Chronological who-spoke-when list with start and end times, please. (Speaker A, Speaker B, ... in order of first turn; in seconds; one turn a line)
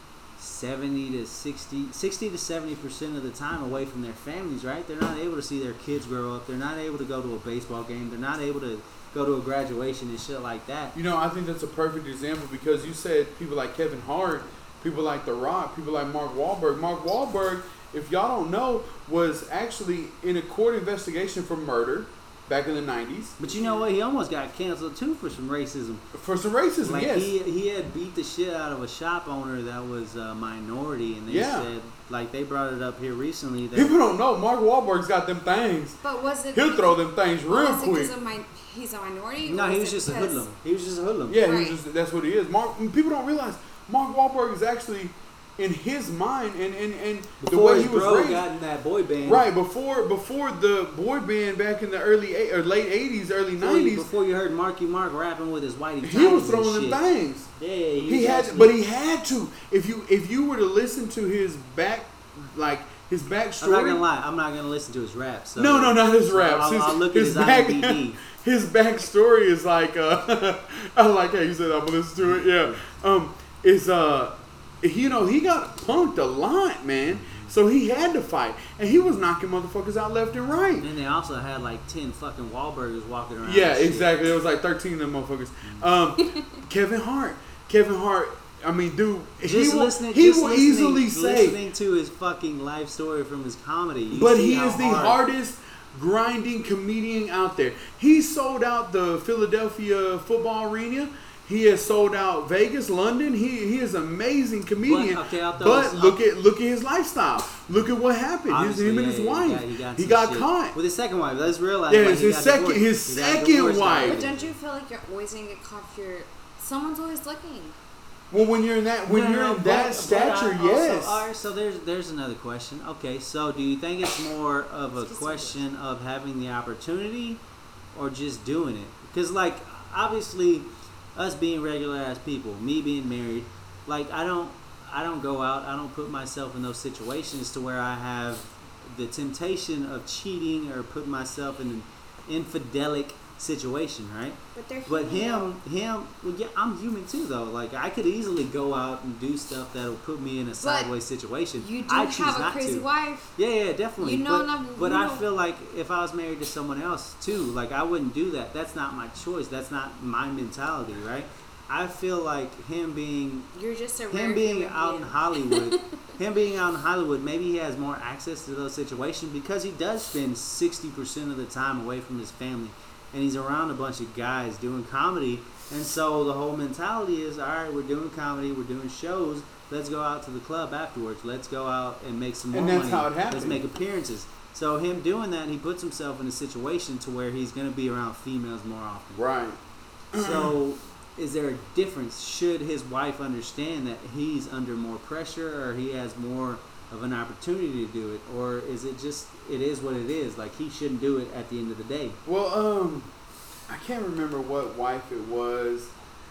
Speaker A: 0.4-10.9
Speaker B: 10.9-23.4
Speaker A: 23.4-26.1
Speaker B: 26.1-27.4
Speaker A: 26.8-34.0
Speaker B: 31.3-31.7
Speaker B: 33.8-36.0
Speaker C: 36.0-40.5
Speaker B: 36.5-38.1
Speaker A: 39.5-41.4
Speaker B: 41.3-48.5
Speaker C: 41.5-41.8
Speaker A: 47.4-49.5
Speaker B: 49.2-54.1
Speaker A: 53.6-57.0
Speaker B: 56.0-57.5
Speaker A: 57.6-58.8
Speaker B: 58.0-64.0
Speaker A: 63.6-68.2
Speaker B: 65.6-80.9
Speaker A: 72.2-72.8
Speaker A: 77.1-77.5
Speaker A: 80.8-84.1
Speaker B: 83.4-91.6
Speaker A: 89.4-95.2
Speaker B: 94.1-110.8
Speaker A: 104.8-106.2
Speaker A: 108.5-114.5
Speaker B: 111.9-114.2
Speaker C: 114.0-117.8
Speaker B: 118.3-121.3
Speaker A: 119.1-127.4
Speaker C: 125.0-125.7
Speaker A: 127.9-163.5
Speaker C: 144.6-145.5
Speaker C: 150.6-150.9
Speaker C: 151.6-153.3
Speaker C: 154.0-155.3
Speaker C: 163.5-165.9
Speaker A: 164.1-189.2
Speaker B: 182.5-183.6
Speaker B: 189.1-189.6
Speaker B: 190.1-190.6
Speaker A: 190.2-202.2
Speaker B: 202.2-203.1
Speaker B: 203.7-205.9